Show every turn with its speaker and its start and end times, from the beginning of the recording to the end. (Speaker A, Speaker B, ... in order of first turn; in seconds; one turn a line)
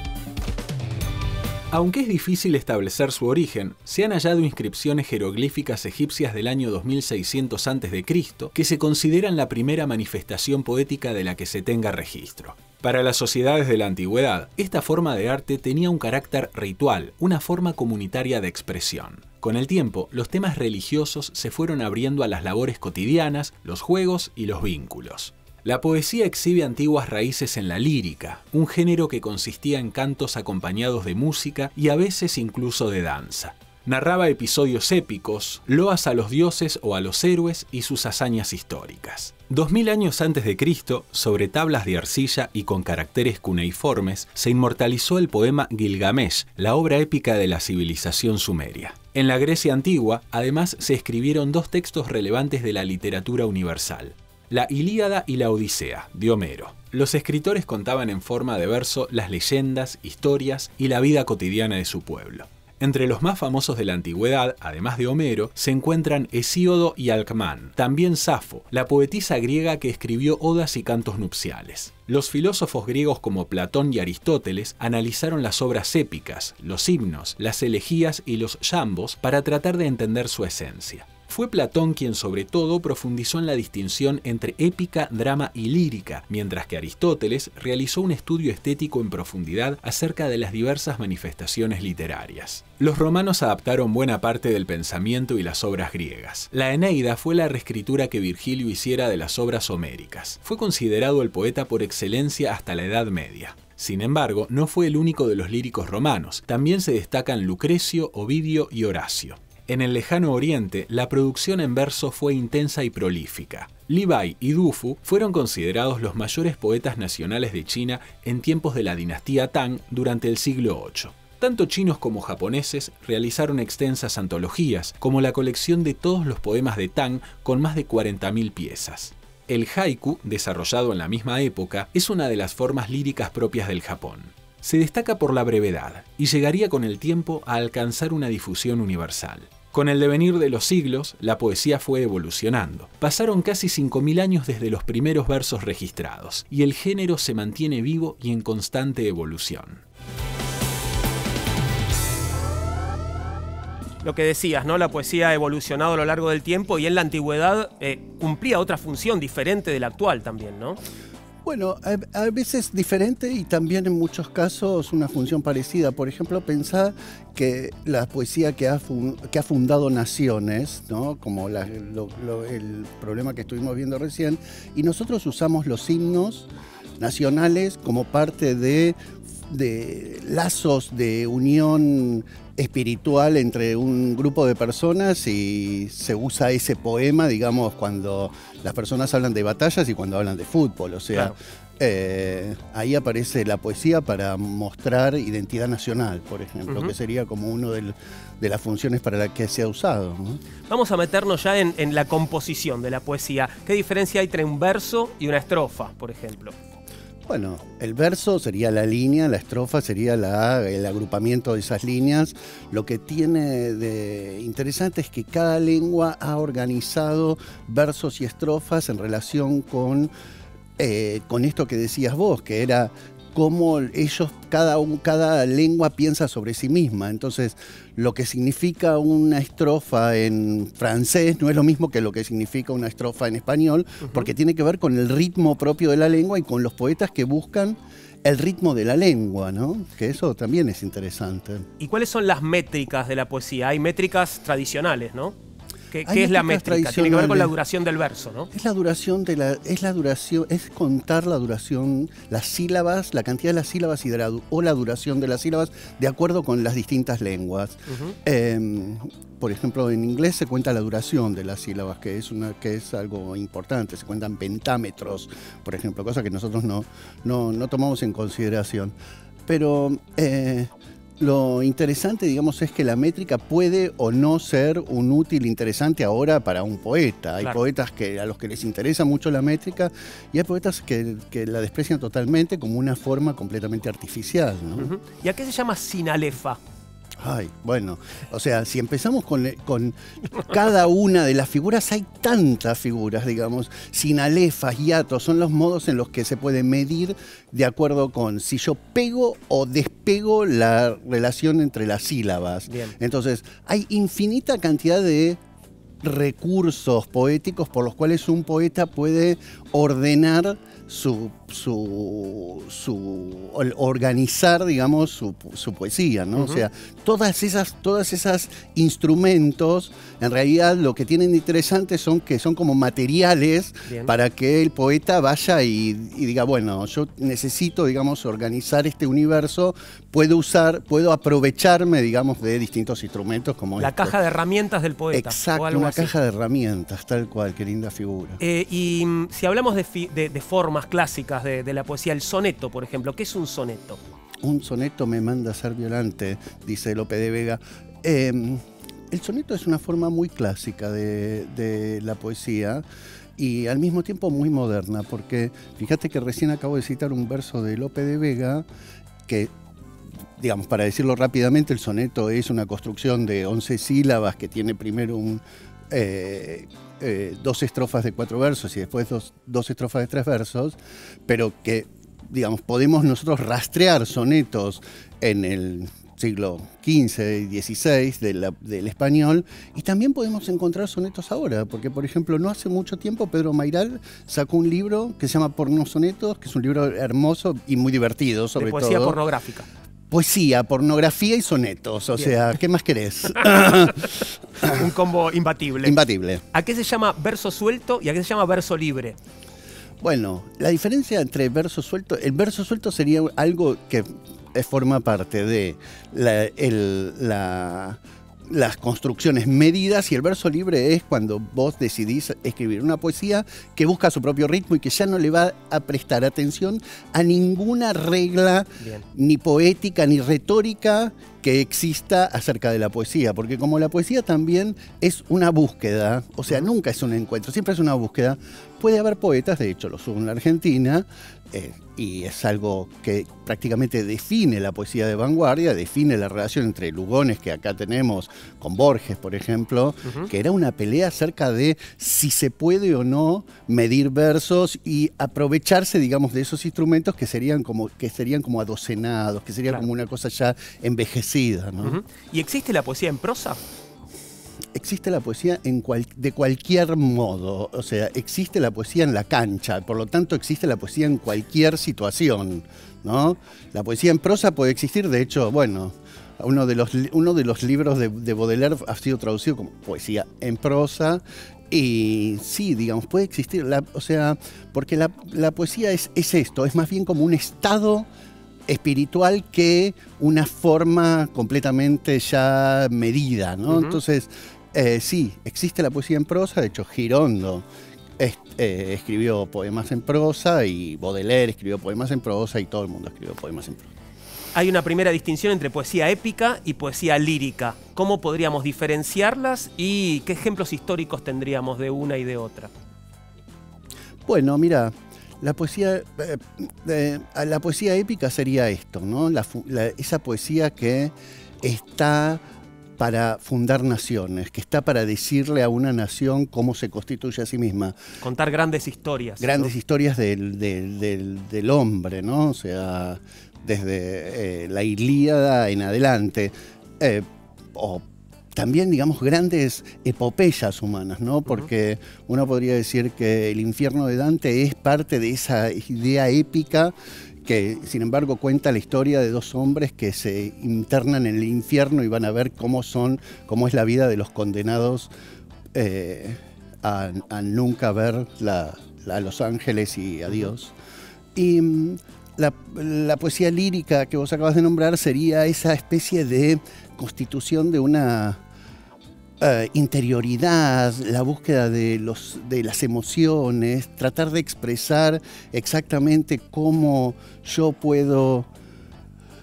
Speaker A: 1.7-149.8
Speaker B: 154.0-160.8
Speaker C: 161.4-176.5
Speaker C: 177.0-200.4
Speaker B: 196.7-196.9
Speaker B: 200.7-206.5
Speaker C: 207.2-220.1
Speaker C: 220.8-241.7
Speaker B: 234.0-234.3
Speaker B: 241.8-245.3
Speaker B: 245.9-248.5
Speaker C: 246.0-247.5
Speaker C: 248.5-268.9
Speaker B: 257.9-258.1
Speaker C: 269.5-284.9
Speaker B: 284.8-286.6
Speaker C: 287.2-305.4
Speaker B: 302.7-302.9
Speaker C: 306.0-334.2
Speaker B: 316.4-316.6
Speaker B: 333.8-336.1
Speaker C: 335.1-338.4
Speaker B: 338.4-344.0
Speaker C: 344.4-352.8
Speaker C: 353.4-358.6
Speaker C: 359.3-359.5
Speaker C: 360.4-389.2
Speaker B: 388.6-389.6
Speaker C: 390.1-394.8
Speaker B: 394.6-396.0
Speaker C: 395.8-396.4
Speaker B: 396.5-399.2
Speaker C: 400.0-452.0
Speaker B: 418.8-419.0
Speaker B: 451.8-453.6
Speaker C: 454.7-478.1
Speaker C: 478.7-487.6
Speaker B: 483.7-484.0
Speaker C: 488.2-493.9
Speaker B: 494.5-502.7
Speaker C: 504.2-512.4
Speaker C: 513.0-518.0
Speaker B: 518.2-519.7
Speaker C: 519.4-528.0
Speaker C: 528.5-536.9
Speaker C: 537.4-545.1
Speaker C: 545.7-550.7
Speaker C: 551.3-558.4
Speaker C: 559.4-568.5